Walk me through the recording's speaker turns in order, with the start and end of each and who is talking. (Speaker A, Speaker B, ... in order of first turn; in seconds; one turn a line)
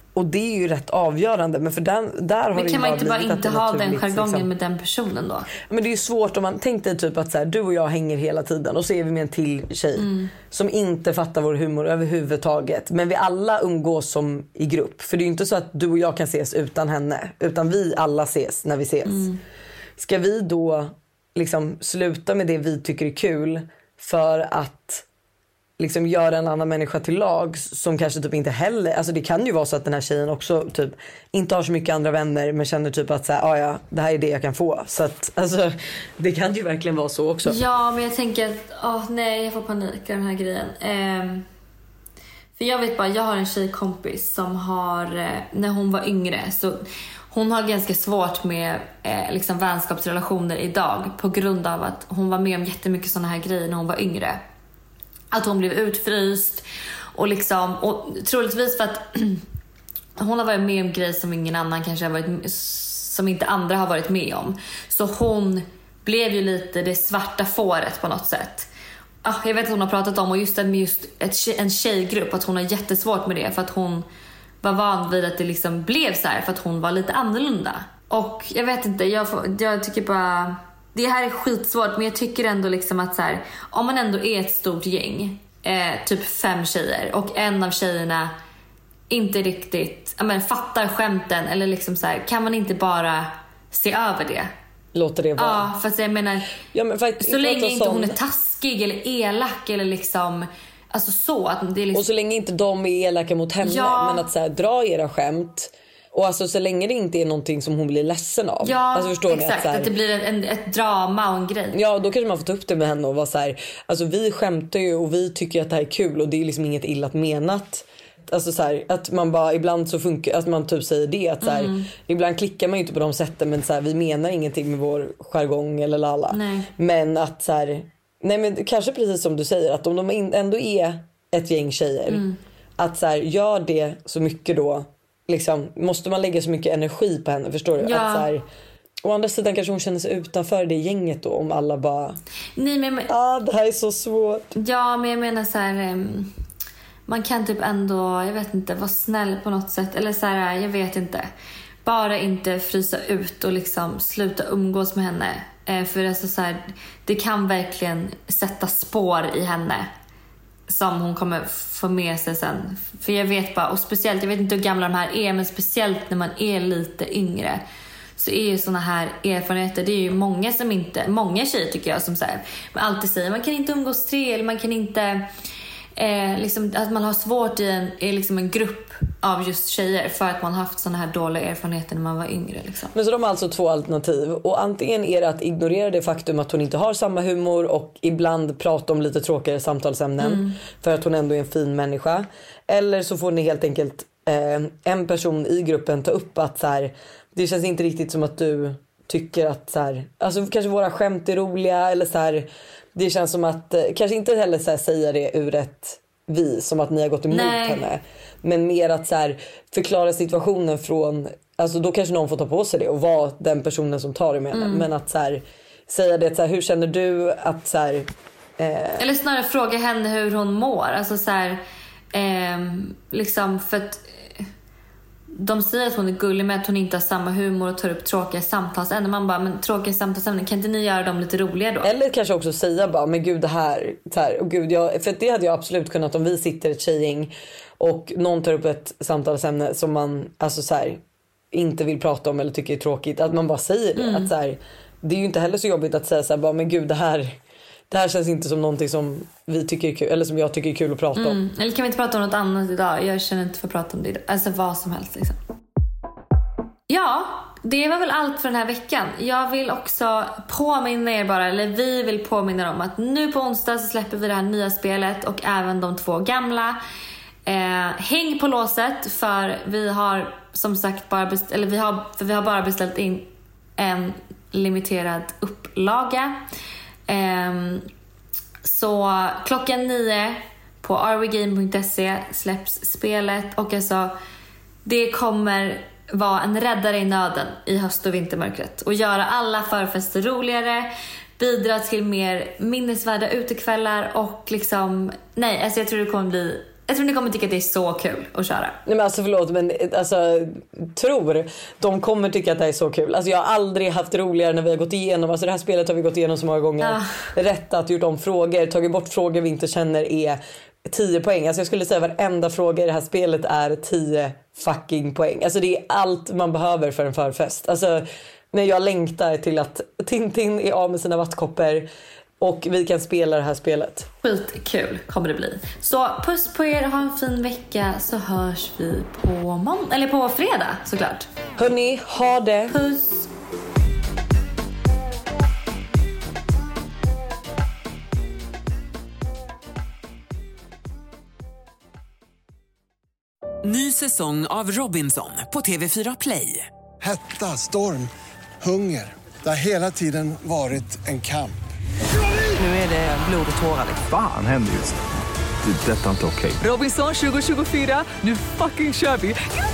Speaker A: 0.1-4.5
Speaker B: 2.5-5.5
Speaker A: 5.7-19.3
Speaker B: 10.0-10.3
Speaker B: 19.1-19.4
Speaker A: 20.0-25.1
Speaker A: 25.8-37.6
Speaker B: 37.5-41.5
Speaker B: 42.6-54.4
Speaker B: 55.3-59.4
Speaker B: 60.2-68.7
Speaker B: 69.2-74.1
Speaker B: 74.6-88.3
Speaker B: 89.1-94.5
Speaker A: 94.9-95.7
Speaker B: 95.4-96.5
Speaker A: 96.7-98.2
Speaker B: 97.2-102.1
Speaker A: 101.9-109.9
Speaker B: 103.6-104.3
Speaker B: 108.6-111.8
Speaker A: 111.7-132.2
Speaker B: 121.4-121.9
Speaker B: 126.3-126.7
Speaker B: 132.1-132.4
Speaker A: 132.8-138.4
Speaker B: 137.8-138.3
Speaker A: 139.0-142.2
Speaker B: 142.6-143.1
Speaker A: 143.1-144.5
Speaker B: 144.6-146.3
Speaker B: 147.1-151.3
Speaker B: 151.8-159.9
Speaker B: 160.7-167.6
Speaker B: 168.2-175.3
Speaker B: 176.0-182.9
Speaker A: 182.9-219.1
Speaker B: 190.2-190.6
Speaker B: 207.3-207.8
Speaker B: 214.5-214.9
Speaker B: 219.0-221.6
Speaker B: 222.1-224.4
Speaker B: 225.3-231.9
Speaker A: 231.8-247.4
Speaker B: 243.9-244.3
Speaker A: 247.9-251.4
Speaker B: 251.2-255.4
Speaker B: 256.9-266.8
Speaker B: 267.5-276.4
Speaker B: 277.1-277.9
Speaker B: 278.6-284.1
Speaker B: 284.9-298.8
Speaker A: 298.9-321.9
Speaker B: 306.8-307.2
Speaker A: 322.4-324.1
Speaker B: 324.2-331.3
Speaker A: 331.6-332.8
Speaker B: 332.7-333.3
Speaker C: 343.6-346.7
Speaker D: 347.0-348.1
Speaker D: 348.6-351.6
Speaker C: 352.6-354.0
Speaker E: 354.0-355.0
Speaker E: 355.6-356.6
Speaker C: 356.6-359.4